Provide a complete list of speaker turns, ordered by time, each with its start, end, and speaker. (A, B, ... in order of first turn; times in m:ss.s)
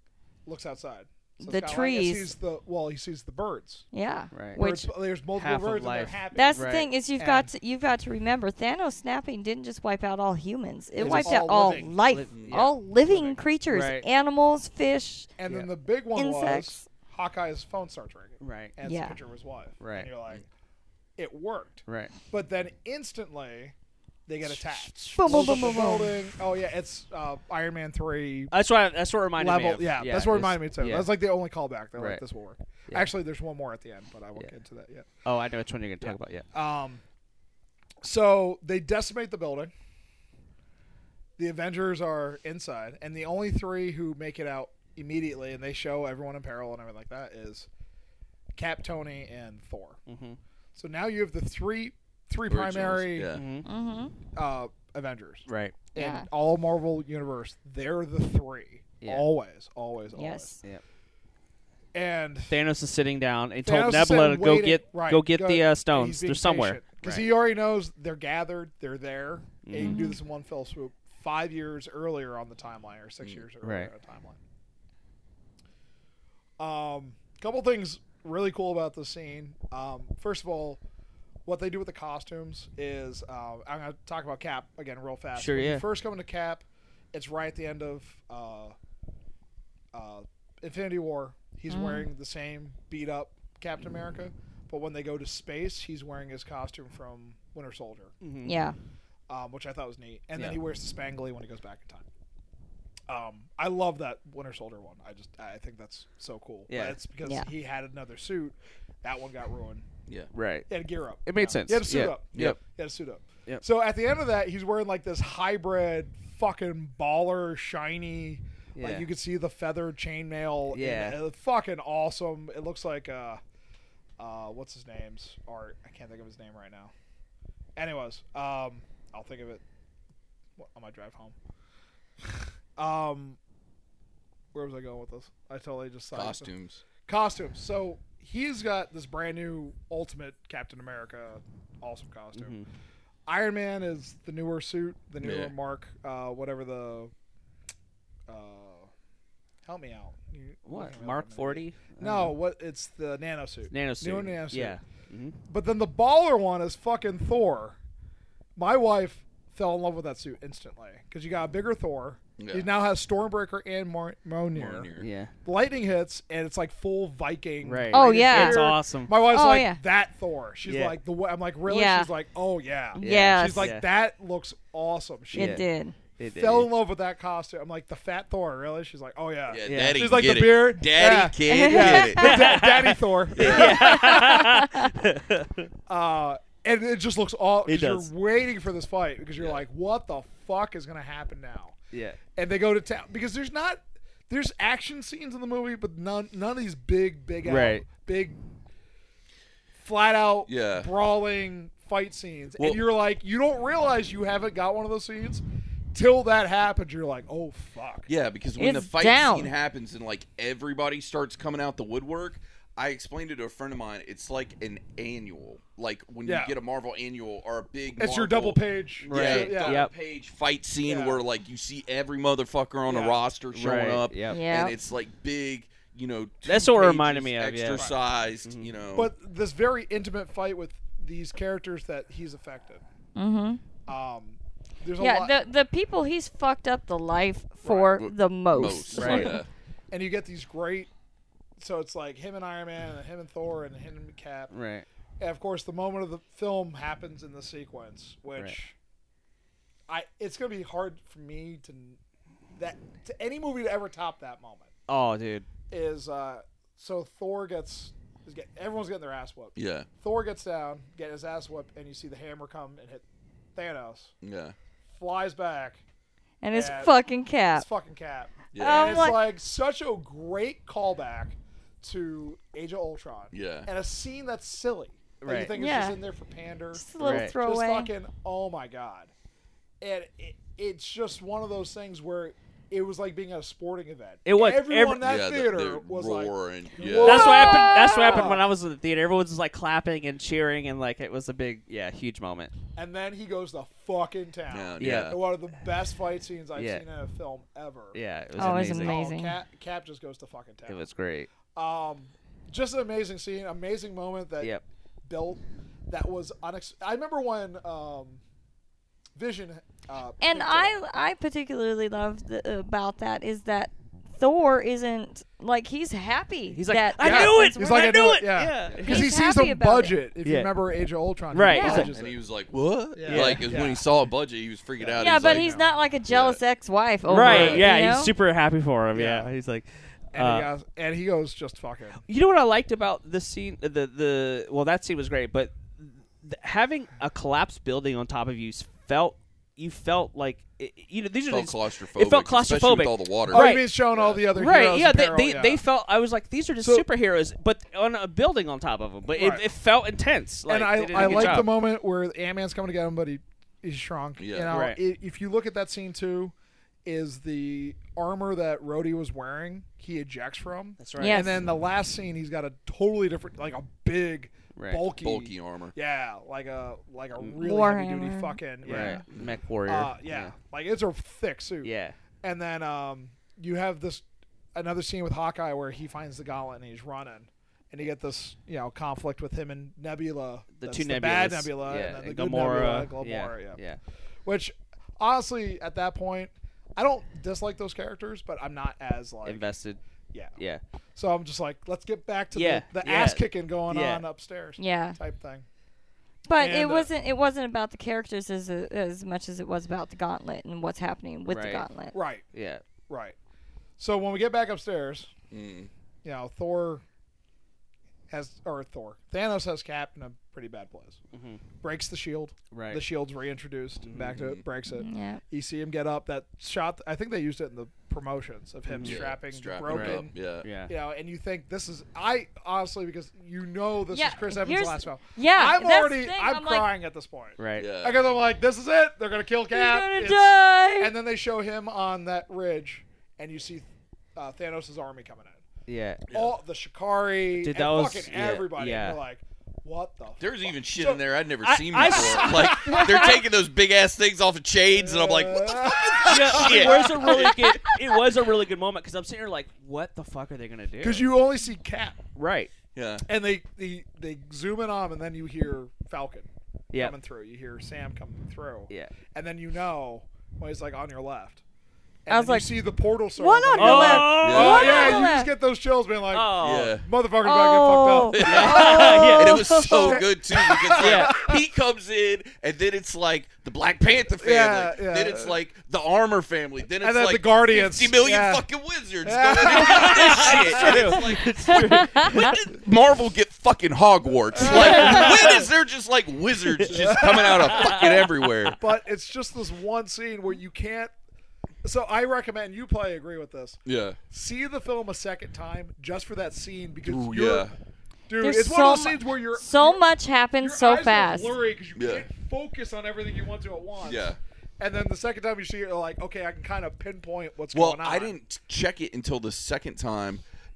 0:00.4-0:03.8 A
0:01.4-0:02.3 B
0:03.9-0:04.9 B
0:04.3-0:04.6 C
0:04.6-0:07.5 A
0:05.4-0:06.9 C
0:06.3-0:15.3 B
0:11.0-0:11.4 C
0:11.0-0:11.9 A
0:12.0-0:12.8 C
0:12.3-0:12.6 D
0:13.7-0:14.0 C
0:15.4-0:20.4 A
0:16.1-0:16.8 B
0:18.4-0:18.7 C
0:18.8-0:19.2 B
0:19.8-0:20.1 C
0:21.2-0:23.7 A
0:21.9-0:22.1 C
0:24.3-0:28.5 A
0:24.5-0:25.6 C
0:25.1-0:26.2 B
0:28.5-0:31.1 C
0:29.4-0:35.1 A
0:32.0-0:32.2 C
0:35.2-0:36.4 C
0:36.0-0:37.0 A
0:38.0-0:39.7 A
0:41.4-0:47.7 A
0:48.5-0:50.0 A
0:50.1-0:50.4 C
0:50.7-0:53.4 A
0:52.5-0:53.4 D
0:53.3-0:53.7 C
0:53.6-0:54.1 B
0:54.3-1:00.6 A
0:55.5-0:55.7 C
0:56.0-0:56.3 B
0:59.0-0:59.3 C
1:00.1-1:00.6 B
1:01.9-1:02.6 A
1:02.5-1:07.3 C
1:03.6-1:14.4 A
1:09.6-1:10.1 C
1:09.8-1:10.2 B
1:13.6-1:13.9 C
1:16.6-1:20.8 A
1:21.4-1:28.8 A
1:25.3-1:25.8 C
1:29.9-1:38.1 A
1:31.7-1:32.1 B
1:38.2-1:38.6 C
1:38.4-1:38.8 B
1:39.3-1:42.0 A
1:43.1-1:49.9 A
1:46.7-1:47.0 C
1:50.3-1:50.7 C
1:50.7-2:03.4 A
1:51.2-1:52.6 C
1:52.3-1:52.6 D
1:58.7-1:59.1 C
2:00.7-2:01.2 C
2:04.2-2:06.9 A
2:07.8-2:09.6 A
2:10.6-2:11.4 A
2:12.8-2:13.4 A
2:14.5-2:16.5 A
2:16.1-2:16.8 D
2:17.0-2:22.6 A
2:22.3-2:22.6 C
2:23.2-2:27.1 A
2:25.2-2:25.5 D
2:28.3-2:28.9 A
2:29.6-2:34.8 A
2:30.6-2:32.4 C
2:33.7-2:35.4 C
2:35.5-2:37.8 A
2:38.6-2:44.9 A
2:42.4-2:42.7 D
2:44.5-2:45.1 D
2:45.0-2:45.3 C
2:45.4-2:55.6 A
2:47.6-2:49.2 C
2:47.9-2:49.8 B
2:50.6-2:51.0 C
2:51.7-2:52.1 B
2:52.9-2:53.8 B
2:53.0-2:53.8 C
2:55.3-2:55.6 C
2:55.3-2:56.0 B
2:56.2-2:56.7 C
2:56.3-3:04.5 A
2:59.5-3:02.6 D
2:59.6-3:00.0 C
3:01.4-3:02.4 B
3:02.2-3:05.7 C
3:03.3-3:03.9 D
3:03.5-3:04.9 B
3:05.9-3:11.7 A
3:07.7-3:08.1 C
3:09.4-3:09.6 D
3:11.9-3:12.2 C
3:12.3-3:18.4 A
3:17.4-3:17.8 C
3:19.8-3:28.1 A
3:20.4-3:20.9 D
3:22.6-3:22.8 D
3:28.1-3:49.1 D
3:28.6-3:29.5 B
3:36.2-3:36.5 A
3:38.0-3:39.8 A
3:39.0-3:39.9 C
3:40.8-3:41.2 A
3:42.9-3:43.2 A
3:43.5-3:44.4 C
3:44.3-3:44.7 B
3:46.4-3:47.8 C
3:48.4-3:48.7 C
3:48.9-3:52.8 A
3:53.2-3:53.6 B
3:53.9-3:55.3 A
3:55.0-3:59.4 B
3:57.6-3:58.0 A
3:58.0-3:59.5 D
3:58.9-3:59.3 C
3:59.9-4:00.9 A
4:01.6-4:04.5 A
4:04.5-4:04.8 C
4:05.2-4:08.7 A
4:09.9-4:12.0 A
4:12.6-4:14.7 A
4:14.9-4:15.5 C
4:15.7-4:23.0 A
4:19.6-4:19.9 D
4:23.5-4:24.1 A
4:24.2-4:24.5 D
4:24.9-4:25.8 A
4:26.4-4:27.7 B
4:26.5-4:26.9 A
4:27.5-4:39.1 A
4:28.5-4:29.1 D
4:28.6-4:29.2 B
4:33.3-4:33.7 D
4:35.2-4:35.5 C
4:35.5-4:36.0 B
4:36.7-4:37.9 B
4:37.0-4:37.3 C
4:39.8-4:48.4 A
4:44.2-4:45.1 C
4:45.0-4:47.4 D
4:47.0-4:48.3 B
4:47.0-4:52.5 C
4:52.8-5:00.8 A
4:54.5-4:55.2 D
4:54.8-4:55.2 C
4:56.5-4:56.8 C
4:57.9-4:59.0 C
4:58.4-4:59.4 B
5:00.7-5:01.3 C
5:01.5-5:08.2 A
5:09.2-5:10.8 A
5:10.2-5:18.1 B
5:16.5-5:19.0 C
5:17.0-5:22.2 A
5:18.7-5:19.0 D
5:18.8-5:20.0 B
5:20.2-5:20.5 C
5:21.3-5:21.9 C
5:21.5-5:21.9 B
5:21.9-5:25.5 D
5:23.0-5:23.8 A
5:23.0-5:23.5 C
5:24.8-5:25.7 A
5:25.0-5:28.1 B
5:26.1-5:26.4 D
5:27.1-5:30.5 C
5:27.2-5:27.6 A
5:27.2-5:27.6 D
5:28.9-5:29.3 A
5:30.1-5:32.0 A
5:32.0-5:43.7 C
5:41.3-5:44.3 D
5:43.3-5:45.6 A
5:44.3-5:51.5 C
5:46.6-5:46.8 A
5:49.1-5:49.4 A
5:50.5-5:56.3 A
5:51.0-5:51.4 D
5:54.2-5:54.5 D
5:54.5-5:54.8 C
5:56.8-6:09.0 A
6:00.8-6:01.3 C
6:01.0-6:01.4 B
6:04.5-6:04.8 C
6:05.0-6:05.7 D
6:07.4-6:08.9 B
6:08.6-6:10.3 C
6:09.6-6:11.7 A
6:11.6-6:11.9 C
6:12.2-6:23.6 A
6:20.6-6:23.8 C
6:24.2-6:29.5 A
6:29.2-6:29.8 C
6:30.4-6:30.6 C
6:30.9-6:35.4 A
6:32.3-6:34.0 C
6:34.6-6:35.0 B
6:36.2-6:41.9 B
6:36.4-6:36.9 A
6:41.3-6:41.6 C
6:41.9-6:42.2 A
6:42.3-6:42.6 C
6:42.9-6:43.2 A
6:43.8-6:45.1 A
6:45.3-6:45.7 D
6:46.0-6:46.8 A
6:48.1-6:51.0 A
6:51.1-6:51.4 C
6:51.6-7:00.1 A
6:52.5-6:52.8 C
6:53.8-6:54.2 C
6:54.2-6:54.4 D
6:54.7-6:55.2 B
6:58.7-6:59.0 C
6:58.8-7:00.5 D
6:59.7-7:00.7 C
7:00.7-7:15.4 A
7:03.9-7:06.7 B
7:07.4-7:07.7 C
7:07.6-7:08.0 D
7:09.5-7:10.9 B
7:15.7-7:16.0 C
7:16.1-7:16.3 D
7:16.1-7:21.0 A
7:17.4-7:19.0 C
7:20.2-7:27.5 D
7:21.4-7:22.8 C
7:21.8-7:23.2 A
7:22.7-7:23.1 B
7:24.7-7:27.3 A
7:26.0-7:31.1 C
7:30.8-7:32.0 A
7:32.2-7:32.5 C
7:32.7-7:33.0 D
7:33.0-7:41.4 A
7:42.0-7:48.7 A
7:42.1-7:42.5 B
7:43.2-7:45.3 B
7:43.6-7:45.0 C
7:44.2-7:45.1 D
7:46.1-7:46.8 C
7:46.4-7:46.8 D
7:47.2-7:50.0 B
7:48.1-8:08.6 D
7:48.2-7:49.4 C
7:49.7-7:51.4 A
7:50.8-7:51.1 C
7:54.2-7:55.4 A
7:56.8-7:58.4 A
7:59.0-8:01.0 A
7:59.6-8:02.4 C
8:01.6-8:02.2 B
8:04.3-8:05.5 A
8:04.4-8:05.4 C
8:04.4-8:05.1 B
8:06.5-8:08.5 C
8:06.6-8:07.9 A
8:08.6-8:10.9 A
8:11.6-8:17.5 A
8:13.6-8:14.0 D
8:16.8-8:17.5 D
8:18.1-8:19.8 A
8:18.2-8:21.4 B
8:20.4-8:28.1 A
8:21.7-8:22.1 D
8:23.8-8:24.2 D
8:27.5-8:30.2 D